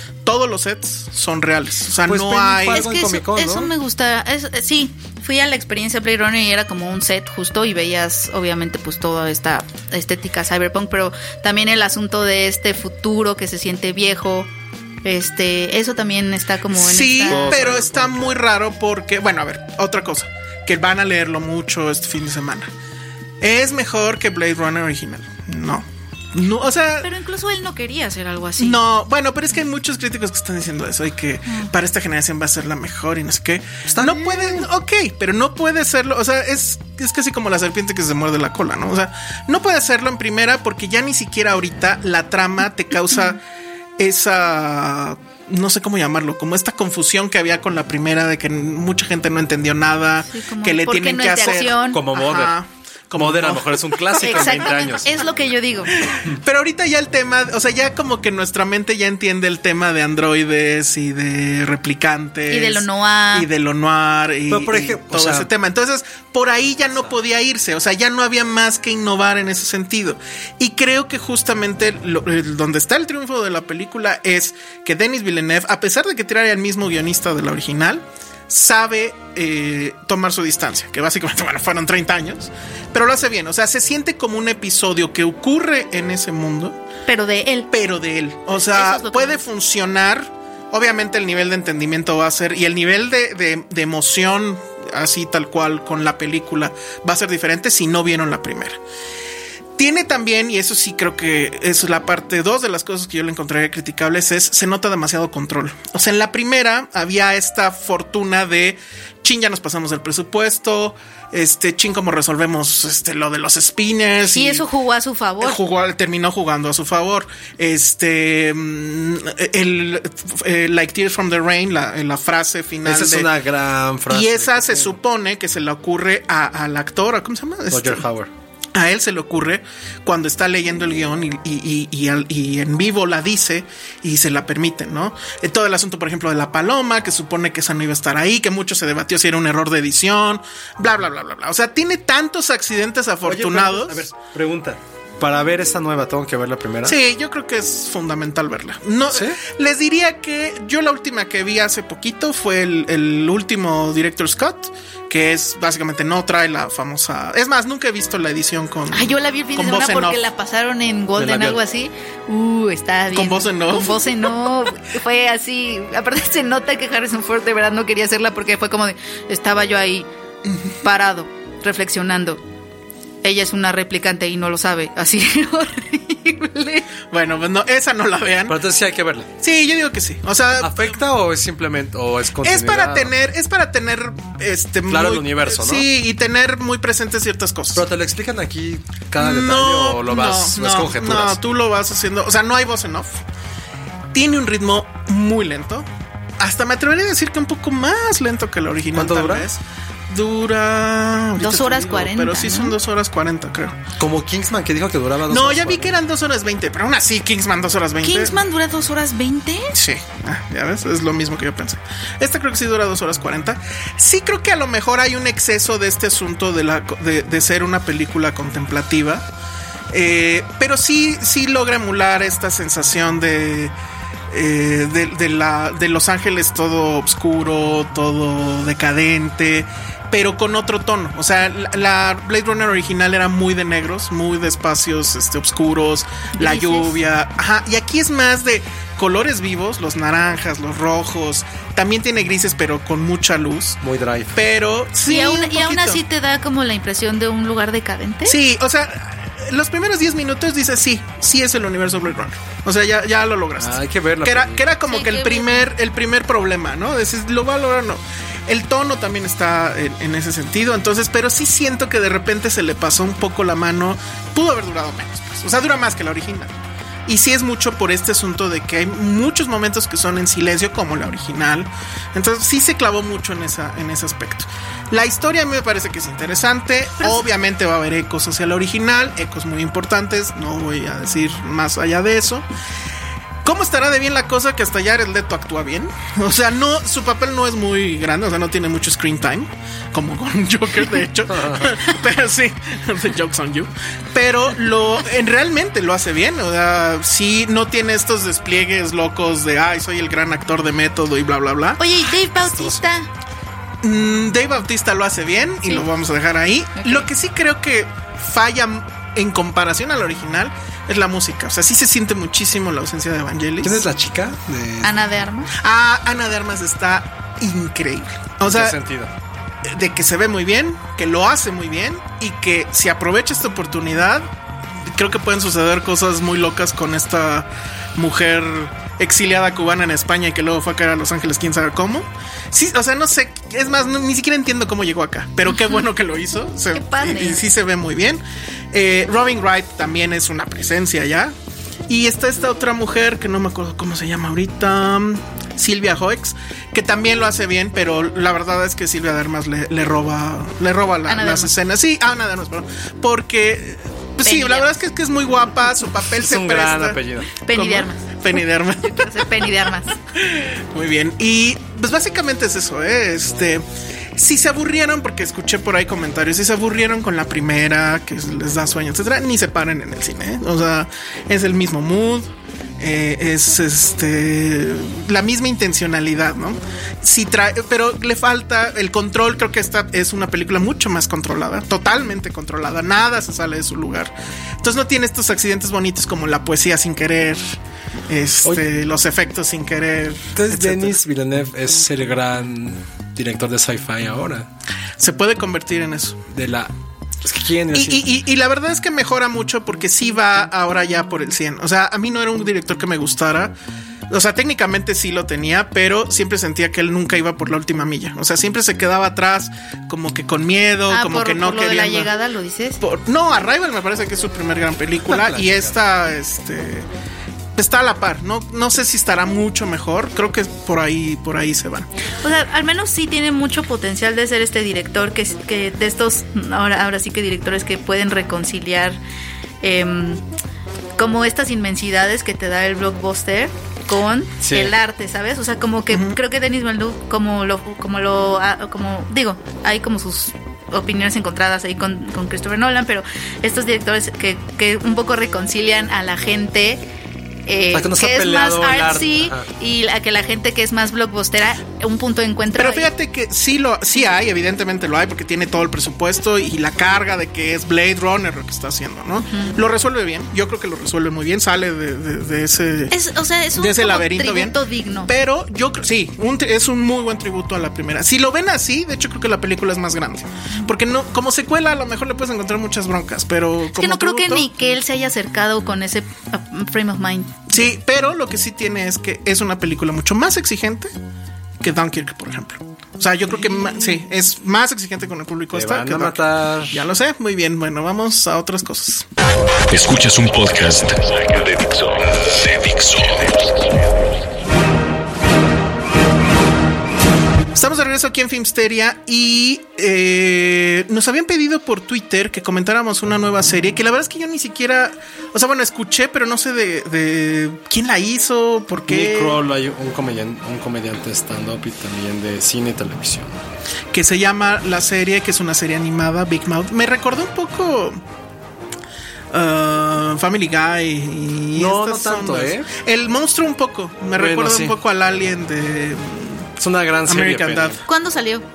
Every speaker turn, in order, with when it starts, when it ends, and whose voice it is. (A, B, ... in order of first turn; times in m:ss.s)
0:00.2-0:02.9 A
0:02.1-0:03.7 B
0:02.7-0:14.5 C
0:15.0-0:17.6 C
0:16.7-0:22.7 A
0:17.2-0:18.4 B
0:23.4-0:27.1 A
0:27.0-0:28.8 C
0:28.6-0:43.4 A
0:33.9-0:34.7 B
0:44.0-0:54.7 A
0:50.3-0:52.0 C
0:51.9-0:52.6 B
0:53.2-0:55.1 B
0:54.2-0:56.0 C
0:56.0-1:26.8 A
1:02.5-1:03.5 C
1:04.5-1:05.5 B
1:27.1-1:27.7 C
1:27.7-1:38.8 A
1:28.7-1:29.4 C
1:39.8-1:54.6 A
1:54.3-1:55.6 C
1:55.4-2:03.3 A
2:02.8-2:05.0 B
2:04.1-2:08.0 A
2:07.7-2:08.3 B
2:08.8-2:24.1 A
2:23.2-2:27.0 B
2:26.8-2:40.2 A
2:29.1-2:29.4 B
2:38.9-2:50.1 C
2:41.2-2:41.6 B
2:43.1-2:44.2 A
2:50.8-2:52.4 C
2:53.2-2:56.9 C
2:57.1-2:58.6 A
2:58.5-2:59.3 B
2:59.4-3:00.9 A
3:00.6-3:03.1 B
3:02.4-3:07.9 A
3:04.9-3:05.9 B
3:07.8-3:11.4 B
3:09.2-3:13.2 A
3:14.1-3:15.9 A
3:16.4-3:23.8 A
3:18.9-3:19.5 B
3:21.4-3:22.8 C
3:24.0-3:26.0 B
3:25.3-3:28.4 A
3:28.0-3:29.8 C
3:29.7-3:39.3 A
3:39.9-3:43.7 A
3:44.3-4:03.8 A
3:56.4-3:57.0 C
4:03.8-4:04.3 B
4:04.3-4:06.0 A
4:05.0-4:08.4 C
4:08.2-4:26.6 A
4:13.6-4:14.7 B
4:14.9-4:15.7 C
4:27.1-4:42.5 A
4:43.4-5:01.8 A
4:51.3-4:51.8 B
5:01.8-5:03.1 C
5:02.4-5:02.8 B
5:03.8-5:13.8 A
5:06.8-5:07.1 C
5:13.6-5:15.0 B
5:14.8-5:15.5 C
5:15.6-5:18.8 A
5:18.5-5:19.1 B
5:19.7-5:24.3 A
5:24.9-5:38.2 A
5:35.5-5:35.8 C
5:36.7-5:37.4 C
5:38.7-5:41.3 A
5:41.9-5:57.0 A
5:51.1-5:51.5 C
5:54.2-5:54.7 C
5:56.2-5:57.3 B
5:57.3-5:58.2 C
5:57.5-5:59.6 A
5:58.8-5:59.9 C
6:00.2-6:03.6 A
6:04.2-6:31.0 A
6:30.4-6:34.5 B
6:35.0-6:36.2 A
6:36.3-6:36.7 B
6:37.2-6:38.1 B
6:37.7-6:43.6 A
6:44.1-6:52.1 A
6:50.9-6:52.8 C
6:52.8-6:56.9 A
6:55.1-6:55.8 B
6:57.6-7:01.9 A
7:02.2-7:09.0 C
7:09.6-7:10.2 C
7:11.0-7:26.8 C
7:14.4-7:14.8 B
7:15.9-7:16.2 A
7:27.5-7:32.9 C
7:27.7-7:29.5 B
7:32.5-7:43.0 A
7:39.3-7:39.6 C
7:42.9-7:45.1 C
7:43.6-7:44.6 A
7:45.1-7:54.5 A
7:53.7-7:57.7 C
7:57.5-8:00.9 A
8:01.6-8:06.2 A
8:05.5-8:06.9 B
8:06.7-8:09.1 A
8:09.7-8:13.7 D
8:17.5-8:29.4 A
8:28.9-8:33.4 B
8:33.9-8:38.0 A
8:39.3-8:46.5 A
8:41.6-8:42.7 B
8:44.2-8:44.8 B
8:46.6-8:47.8 B
8:47.1-8:47.8 A
8:47.9-8:48.4 C